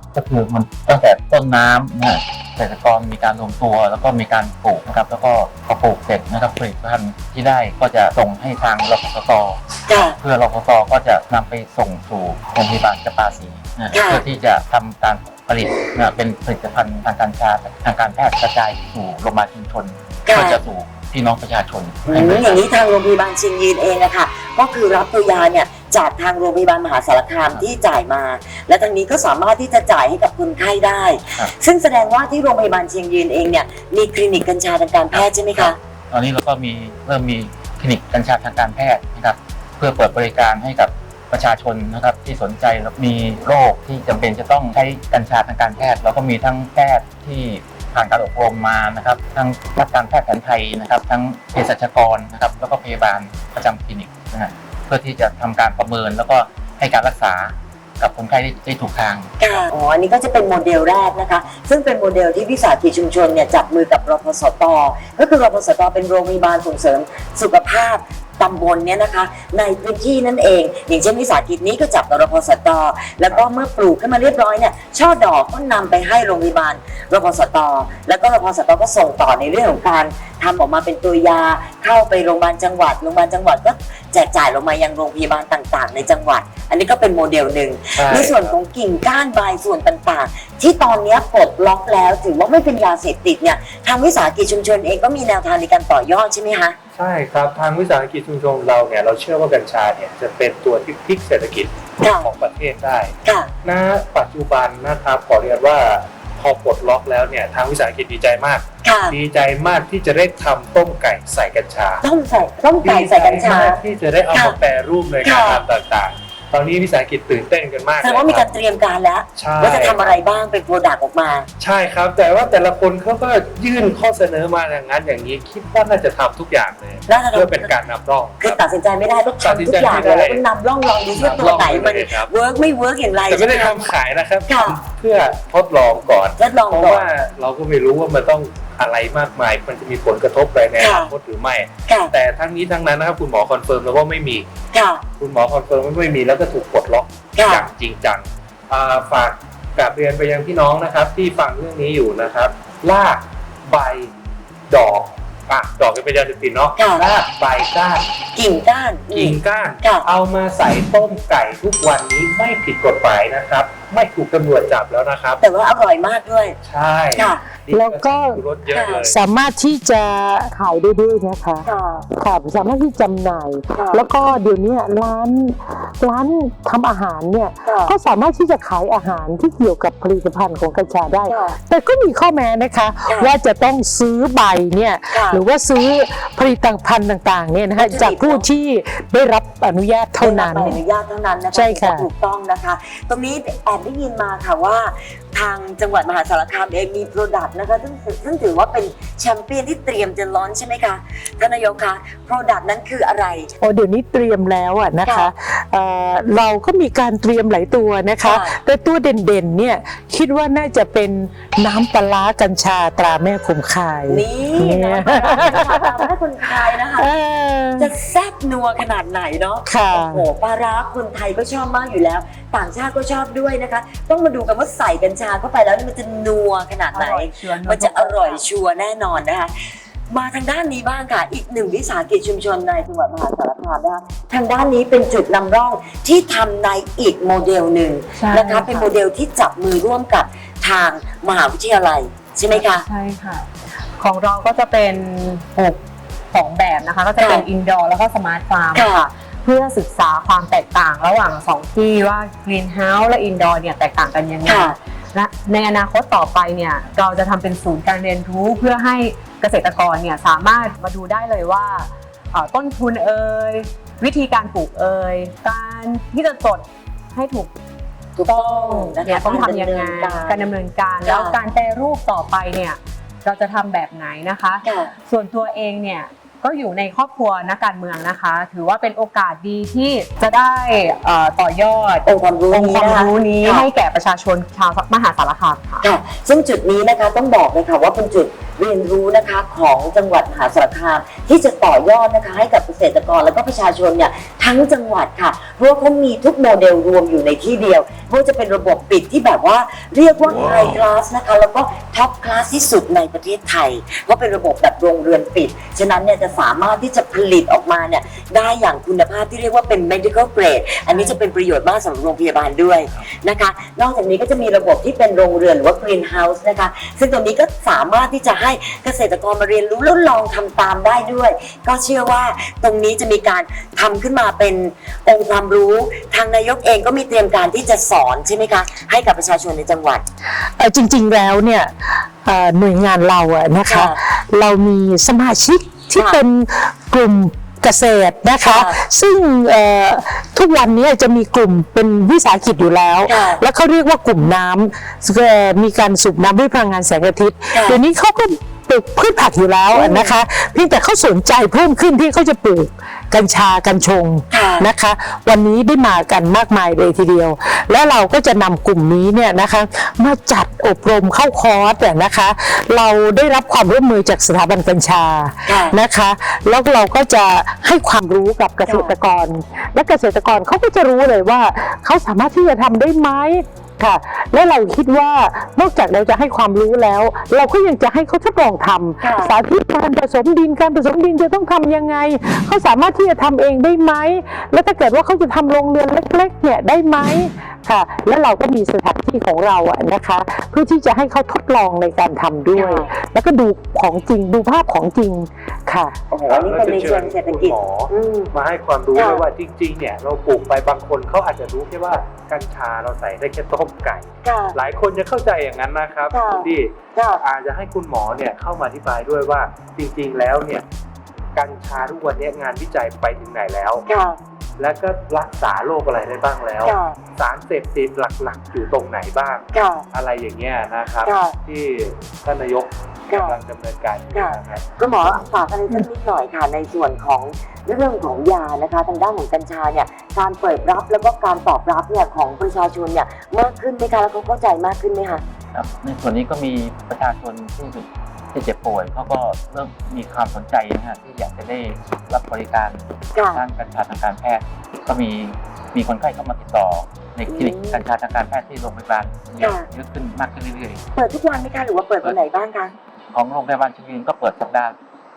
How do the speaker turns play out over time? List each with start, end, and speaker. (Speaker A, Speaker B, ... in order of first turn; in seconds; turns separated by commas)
Speaker A: 0.1-9.6, Speaker B: 9.9-10.2, Speaker A: 10.2-22.6, Speaker B: 13.9-14.2, Speaker B: 20.2-20.6, Speaker B: 22.1-35.8, Speaker A: 35.1-59.3, Speaker B: 59.4-96.8, Speaker C: 88.0-88.5, Speaker C: 96.9-112.0, Speaker B: 102.0-102.3, Speaker B: 103.2-103.5, Speaker B: 108.8-109.2, Speaker B: 112.0-113.8, Speaker C: 112.8-118.5, Speaker B: 114.3-114.6, Speaker B: 115.2-115.6, Speaker B: 118.0-121.5, Speaker C: 119.3-120.2, Speaker C: 121.6-128.6, Speaker B: 127.1-127.8, Speaker B: 128.4-133.8, Speaker C: 129.4-130.4, Speaker C: 131.1-132.3, Speaker C: 133.3-144.5, Speaker B: 134.5-134.8, Speaker B: 136.4-137.1, Speaker B: 140.8-141.1, Speaker B: 141.9-142.1, Speaker B: 144.7-145.0, Speaker C: 145.2-154.1, Speaker B: 147.3-147.7, Speaker C: 154.7-158.1, Speaker B: 156.8-157.0, Speaker B: 158.3-160.1, Speaker C: 159.1-165.4, Speaker B: 165.4-166.6, Speaker C: 166.6-169.2, Speaker B: 167.1-167.4, Speaker D: 167.7-168.4, Speaker B: 168.7-169.1, Speaker D: 169.0-190.8, Speaker B: 171.6-172.1, Speaker B: 173.7-174.0, Speaker B: 177.6-177.9, Speaker B: 181.3-181.6, Speaker B: 185.1-185.4, Speaker B: 187.8-188.5, Speaker B: 190.2-203.5, Speaker D: 191.5-192.1, Speaker D: 203.6-216.0, Speaker B: 208.2-208.6, Speaker B: 214.1-217.1, Speaker D: 216.9-217.9, Speaker B: 217.8-229.5, Speaker D: 219.6-220.2, Speaker E: 226.9-228.4, Speaker B: 230.1-242.8, Speaker E: 238.1-238.9, Speaker E: 242.5-245.8, Speaker E: 246.3-267.6, Speaker B: 247.2-247.4, Speaker B: 248.7-249.1, Speaker B: 254.4-254.7, Speaker B: 268.1-270.5, Speaker E: 268.2-285.9, Speaker B: 271.0-271.4, Speaker B: 274.6-274.9, Speaker B: 282.1-283.7, Speaker B: 285.8-330.0, Speaker E: 310.9-311.2, Speaker D: 330.4-395.9, Speaker B: 333.6-334.0, Speaker B: 335.9-336.2, Speaker B: 338.4-338.8, Speaker B: 343.1-343.4, Speaker B: 347.5-347.8, Speaker B: 349.7-350.2, Speaker B: 354.3-354.7, Speaker B: 365.5-365.8, Speaker B: 368.6-368.9, Speaker B: 379.0-379.4, Speaker B: 392.5-392.9, Speaker B: 396.1-398.3, Speaker C: 396.2-410.6, Speaker B: 398.9-399.2, Speaker B: 404.2-404.6, Speaker B: 406.1-407.2, Speaker C: 411.4-413.9, Speaker B: 413.9-414.2, Speaker C: 414.6-424.6, Speaker B: 416.6-417.0, Speaker B: 419.5-419.9, Speaker B: 421.0-421.4, Speaker B: 423.1-423.4, Speaker B: 424.1-435.2, Speaker A: 435.5-450.8, Speaker B: 443.1-443.4, Speaker B: 447.3-447.8, Speaker B: 449.4-449.6, Speaker B: 450.9-452.7, Speaker A: 453.1-454.8